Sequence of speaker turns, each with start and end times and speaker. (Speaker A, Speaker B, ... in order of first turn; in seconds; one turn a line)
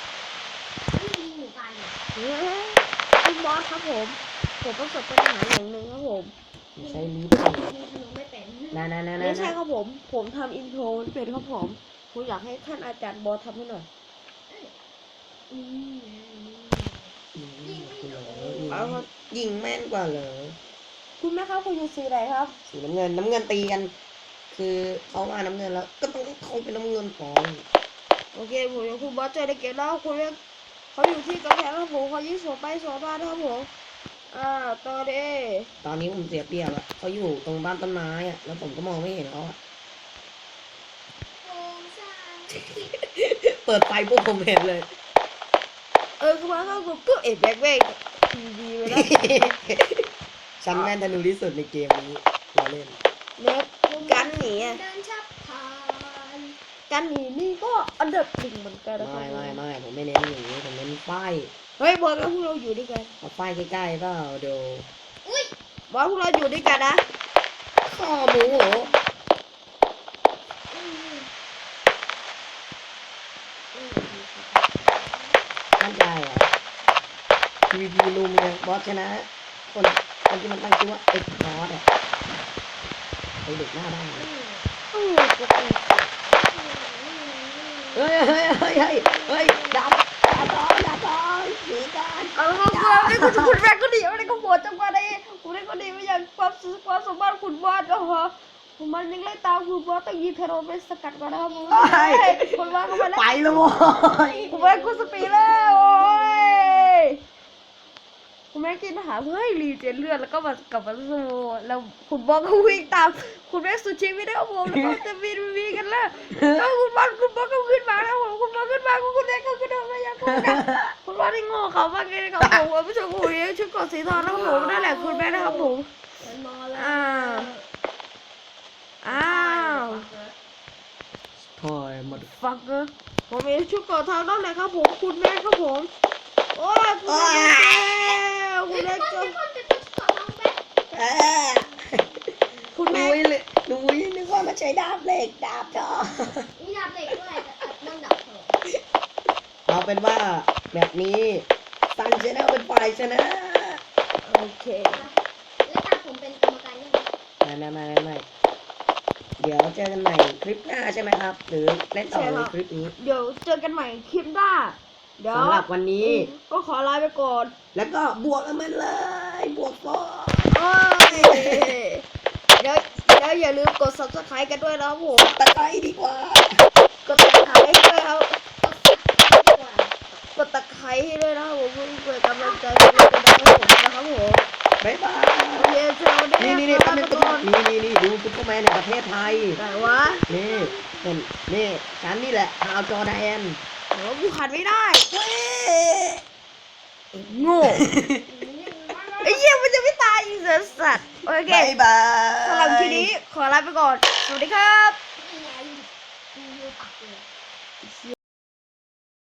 Speaker A: 0.9-1.9
Speaker B: 2.1-6.3
Speaker C: 6.8-7.7
Speaker A: 6.8-8.9
Speaker C: 8.7-9.6
Speaker B: 9.2-13.9
Speaker A: 14.5-14.7
Speaker A: 15.5-18.9
Speaker C: 17.3-20.6
Speaker B: 18.7-19.1
Speaker B: 21.2-22.5
Speaker C: 22.7-23.9
Speaker C: 24.5-27.6
Speaker B: 28.3-30.4
Speaker B: 30.9-33.7
Speaker B: 34.3-35.7
Speaker C: 35.8-39.6
Speaker A: 41.4-42.9
Speaker C: 42.9-44.9
Speaker B: 46.2-49.1
Speaker A: 46.4-46.8
Speaker C: 48.9-50.0
Speaker C: 50.6-53.0
Speaker B: 53.4-54.8
Speaker A: 53.9-56.6
Speaker B: 56.9-59.6
Speaker C: 59.0-61.5
Speaker B: 61.8-63.1
Speaker C: 63.2-64.9
Speaker A: 65.2-65.5
Speaker B: 65.9-67.0
Speaker A: 66.5-67.0
Speaker C: 67.8-68.9
Speaker A: 68.3-69.0
Speaker A: 70.7-71.3
Speaker A: 73.7-75.4
Speaker C: 75.8-76.5
Speaker C: 77.7-81.8
Speaker C: 83.4-84.3
Speaker A: 84.1-84.7
Speaker B: 84.9-86.0
Speaker A: 86.2-88.1
Speaker C: 87.9-93.5
Speaker A: 88.8-89.8
Speaker B: 92.3-103.4
Speaker A: 101.2-102.8
Speaker C: 101.7-104.5
Speaker A: 103.4-106.9
Speaker B: 104.5-107.2
Speaker B: 108.5-125.9
Speaker C: 114.7-115.0
Speaker C: 116.3-116.6
Speaker A: 124.1-127.7
Speaker B: 126.7-127.5
Speaker B: 129.0-130.1
Speaker A: 129.0-130.3
Speaker C: 131.4-132.3
Speaker B: 132.3-135.9
Speaker B: 136.5-139.3
Speaker C: 137.1-138.2
Speaker A: 138.7-140.6
Speaker C: 140.9-142.2
Speaker B: 142.7-143.2
Speaker C: 142.8-146.5
Speaker A: 146.6-148.6
Speaker C: 149.7-153.8
Speaker B: 154.2-155.1
Speaker A: 154.9-157.1
Speaker C: 157.4-158.2
Speaker C: 159.4-162.9
Speaker B: 162.1-167.5
Speaker C: 165.3-166.3
Speaker C: 167.7-170.6
Speaker B: 170.5-175.3
Speaker C: 171.1-171.7
Speaker C: 175.2-176.6
Speaker B: 177.0-178.4
Speaker A: 178.6-179.9
Speaker B: 180.1-184.4
Speaker A: 182.4-183.3
Speaker C: 184.8-185.7
Speaker B: 185.6-187.5
Speaker C: 186.4-189.6
Speaker A: 189.2-191.2
Speaker B: 189.6-190.2
Speaker C: 190.3-193.6
Speaker B: 193.9-195.1
Speaker C: 195.1-196.2
Speaker B: 197.1-197.9
Speaker A: 197.2-199.4
Speaker C: 197.7-198.1
Speaker B: 199.2-201.7
Speaker A: 200.4-201.4
Speaker C: 201.5-203.1
Speaker B: 202.4-205.0
Speaker A: 205.2-207.2
Speaker B: 207.8-208.1